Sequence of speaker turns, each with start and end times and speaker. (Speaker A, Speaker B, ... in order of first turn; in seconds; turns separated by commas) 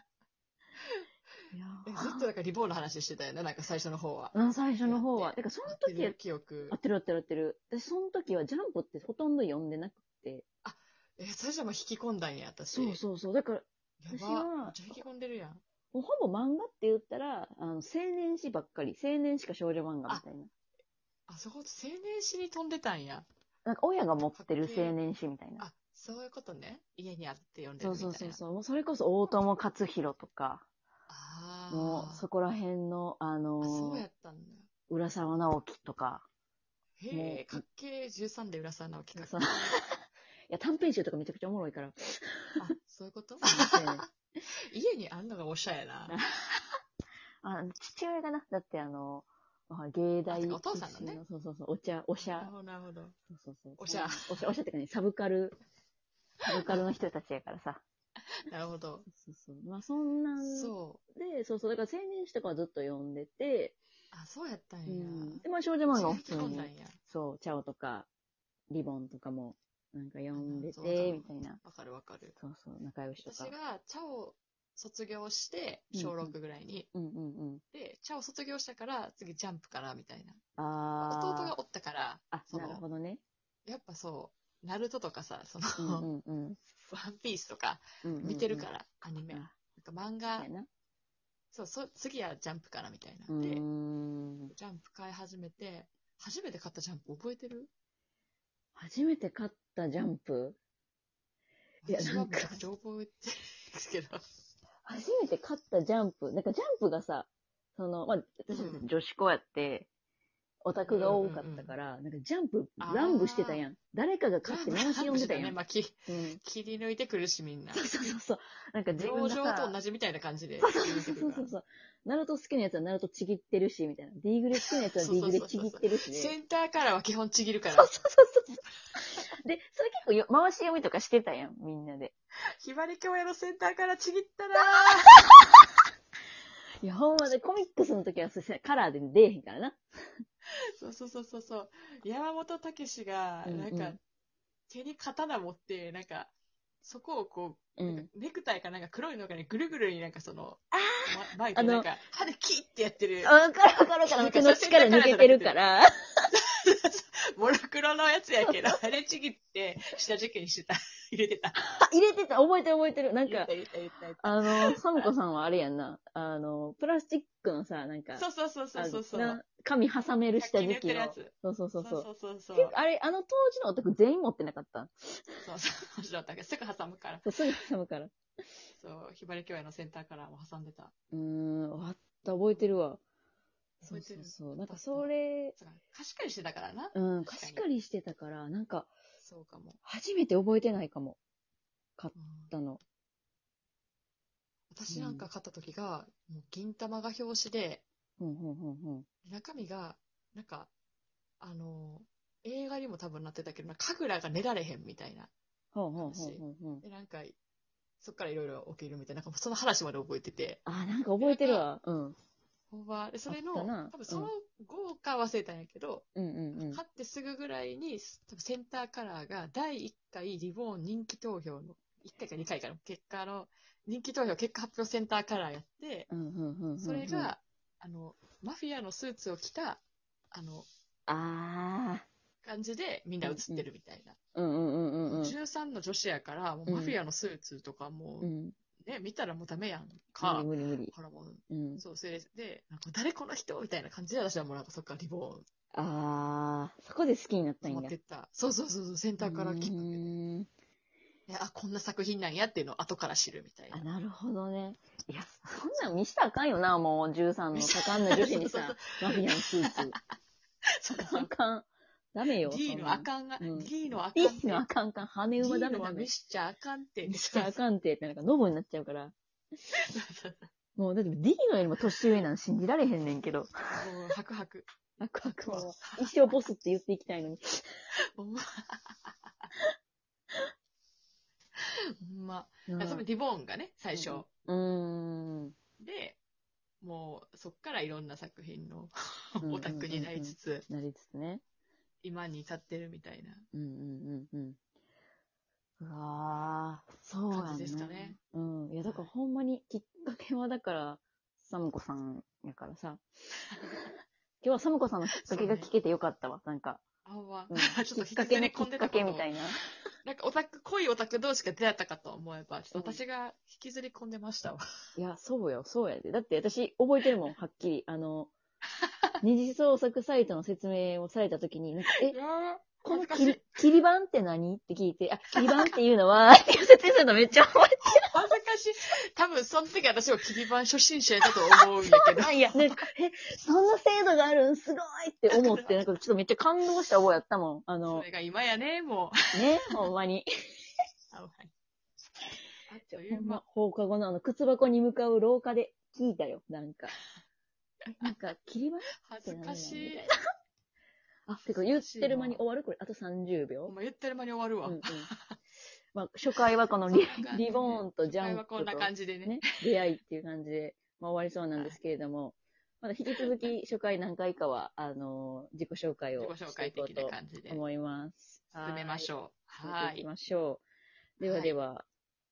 Speaker A: 1.5-2.3, Speaker B: 1.9-6.8, Speaker A: 4.3-6.2, Speaker A: 6.7-10.4, Speaker B: 10.6-13.0, Speaker A: 12.7-15.0, Speaker B: 14.0-15.6, Speaker A: 15.9-20.5, Speaker B: 21.3-23.3, Speaker A: 23.6-25.6, Speaker B: 24.3-24.9, Speaker B: 25.6-28.4, Speaker A: 27.8-30.6, Speaker B: 31.1-32.2, Speaker A: 31.7-34.0, Speaker B: 33.6-34.7, Speaker A: 34.9-36.2, Speaker B: 37.0-39.8, Speaker A: 37.1-37.6, Speaker A: 39.1-39.8, Speaker A: 40.5-42.6, Speaker B: 42.6-46.1, Speaker A: 43.4-44.0, Speaker A: 46.1-46.6, Speaker A: 47.4-52.5, Speaker B: 50.3-51.2, Speaker B: 52.2-53.1, Speaker A: 53.3-55.6, Speaker B: 53.8-54.5, Speaker A: 56.4-57.8, Speaker B: 58.5-59.1, Speaker A: 59.1-63.8, Speaker B: 60.4-61.0, Speaker B: 64.1-67.0, Speaker A: 64.9-68.1, Speaker A: 68.7-71.6, Speaker B: 70.3-72.4, Speaker A: 72.4-73.5, Speaker B: 73.2-76.9, Speaker A: 75.9-76.3, Speaker A: 76.9-77.6, Speaker B: 77.7-80.4, Speaker A: 80.6-81.5, Speaker B: 81.0-82.8, Speaker A: 82.3-83.2, Speaker B: 83.7-86.1, Speaker A: 85.8-86.6, Speaker B: 86.8-90.5, Speaker A: 88.0-88.7, Speaker A: 90.3-90.7, Speaker B: 91.5-93.6, Speaker A: 93.3-94.5, Speaker B: 94.5-97.7, Speaker A: 98.8-100.6, Speaker B: 101.8-104.2, Speaker A: 101.9-102.6, Speaker A: 104.8-109.9, Speaker B: 108.5-108.8, Speaker A: 110.6-116.4, Speaker B: 110.8-111.7, Speaker B: 112.8-113.6, Speaker B: 114.5-118.2, Speaker A: 117.7-119.7, Speaker B: 118.9-121.5, Speaker A: 120.6-126.3, Speaker B: 124.7-127.9, Speaker A: 127.7-132.1, Speaker B: 132.6-135.2, Speaker A: 134.8-135.5, Speaker A: 136.8-140.2, Speaker B: 140.8-144.0, Speaker A: 143.4-144.0, Speaker B: 144.7-146.3, Speaker B: 146.8-153.4, Speaker A: 147.8-148.1, Speaker A: 150.7-151.9, Speaker A: 153.2-156.3, Speaker B: 154.0-155.6, Speaker B: 156.3-161.6, Speaker A: 158.4-158.8, Speaker A: 161.6-163.5, Speaker B: 163.2-165.1, Speaker A: 164.2-168.2, Speaker B: 168.2-169.4, Speaker A: 168.8-175.4, Speaker B: 170.4-172.7, Speaker B: 175.4-177.3, Speaker A: 177.2-178.1, Speaker B: 178.8-180.9, Speaker A: 181.1-183.0, Speaker A: 183.8-185.6, Speaker B: 183.8-187.6, Speaker A: 186.9-188.9, Speaker B: 189.2-189.8, Speaker A: 189.8-191.2, Speaker A: 192.0-192.8, Speaker B: 192.2-192.5, Speaker B: 194.7-197.8, Speaker A: 194.9-195.3, Speaker A: 198.2-199.1, Speaker B: 199.2-200.7, Speaker B: 201.4-205.3, Speaker A: 205.7-206.8, Speaker B: 206.0-207.4, Speaker B: 208.0-210.6, Speaker A: 210.7-212.2, Speaker B: 211.2-211.7, Speaker B: 212.7-216.0, Speaker A: 213.3-214.3, Speaker A: 216.2-216.8, Speaker B: 216.6-226.1, Speaker A: 226.1-227.3, Speaker B: 226.8-229.8, Speaker B: 230.3-230.7, Speaker A: 231.1-232.0, Speaker B: 232.4-234.2, Speaker A: 233.2-233.7, Speaker A: 234.3-235.3, Speaker B: 235.1-238.3, Speaker A: 236.7-236.9, Speaker A: 238.2-238.5, Speaker B: 238.8-245.4, Speaker A: 240.2-240.9, Speaker A: 241.5-241.8, Speaker A: 245.7-247.9, Speaker B: 247.6-250.1, Speaker A: 249.2-250.5, Speaker B: 251.3-253.8, Speaker A: 253.7-260.0, Speaker B: 257.5-259.9, Speaker B: 260.8-261.3, Speaker A: 260.9-266.1, Speaker B: 262.4-264.6, Speaker B: 265.4-267.6, Speaker A: 267.1-269.1, Speaker B: 269.7-270.5, Speaker A: 270.8-274.0, Speaker B: 273.7-274.7, Speaker A: 275.0-277.6, Speaker B: 275.2-276.3, Speaker B: 278.1-279.3, Speaker B: 282.0-284.3, Speaker A: 282.7-283.0, Speaker A: 283.9-285.5, Speaker B: 285.8-286.2, Speaker B: 286.8-290.6, Speaker A: 289.4-291.4, Speaker B: 292.0-293.4, Speaker A: 293.5-294.6, Speaker A: 295.8-303.0, Speaker B: 297.3-298.2, Speaker B: 298.8-299.1, Speaker A: 304.4-306.8, Speaker B: 305.2-305.7, Speaker B: 307.0-309.3, Speaker A: 307.5-309.6, Speaker B: 310.0-314.6, Speaker A: 312.7-313.0, Speaker A: 315.0-318.3, Speaker A: 319.2-322.1, Speaker B: 322.0-323.6, Speaker A: 322.8-328.1, Speaker B: 325.3-325.8, Speaker B: 327.9-332.8, Speaker A: 331.9-338.1, Speaker B: 335.3-335.9, Speaker B: 337.8-339.8, Speaker A: 339.3-340.3, Speaker B: 341.1-341.5, Speaker B: 342.7-343.4, Speaker A: 342.9-346.9, Speaker A: 348.0-350.1, Speaker B: 349.0-350.1, Speaker A: 351.3-353.7, Speaker B: 351.6-352.4, Speaker B: 353.6-355.4, Speaker A: 354.6-355.1, Speaker A: 355.9-370.6, Speaker B: 356.9-359.8, Speaker B: 363.1-363.5, Speaker B: 366.1-367.6, Speaker B: 368.6-370.1, Speaker A: 371.2-371.9, Speaker B: 371.2-371.6